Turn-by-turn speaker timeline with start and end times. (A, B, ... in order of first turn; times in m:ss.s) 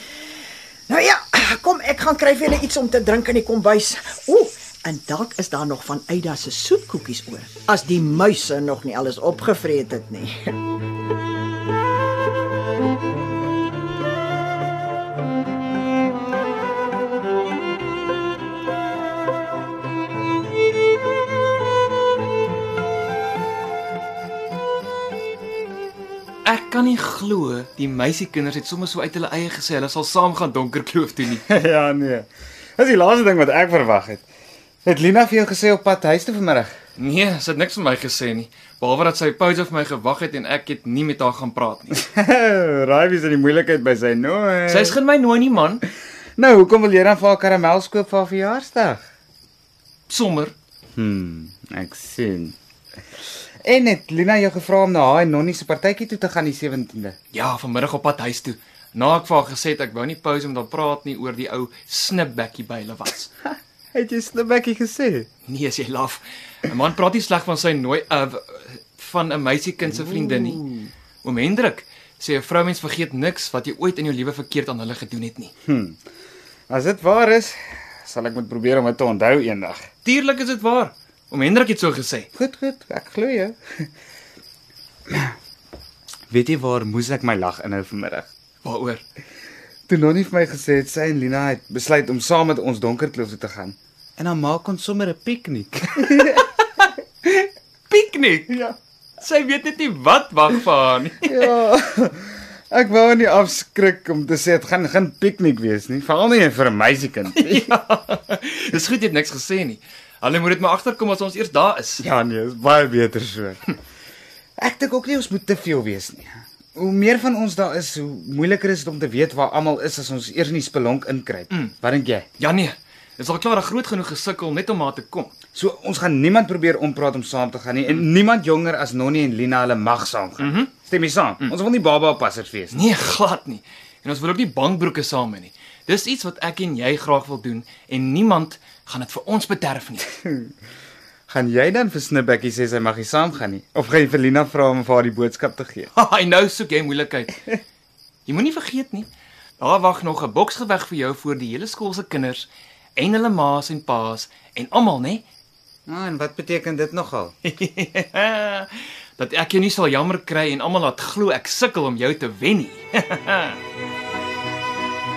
0:00.9-0:10.5 A
0:26.4-0:31.4 B
0:31.5-0:34.2 C
0:34.8-0:36.7 C
0:37.0-0:42.0 B
0:42.0-0:45.0 C
0:44.7-0:45.8 B
0:46.4-0:49.0 C
0:50.1-0:50.6 B
0:51.0-0:52.6 C
0:53.6-0:57.2 C
0:57.3-1:03.3 B
1:03.5-1:05.3 C
1:05.5-1:10.6 B
1:10.1-1:10.9 C
1:11.2-1:15.5 B
1:15.7-1:16.0 C
1:16.7-1:19.9 C
1:20.0-1:22.3 B
1:22.4-1:23.9 C
1:26.3-1:28.3 C
1:28.6-1:29.0 B
1:29.9-1:36.6 C
1:37.9-1:41.5 B
1:41.2-1:47.7 C
1:47.3-1:52.0 B
1:52.0-1:53.7 C
1:54.6-2:02.3 C
2:02.4-2:05.3 B
2:05.6-2:12.9 C
2:10.4-2:10.7 B
2:12.7-2:20.1 B
2:20.2-2:20.5 C
2:21.3-2:25.9 C
2:26.0-2:27.4 B
2:28.3-2:29.1 B
2:29.6-2:35.2 B
2:35.9-2:37.3 C
2:37.5-2:43.6 B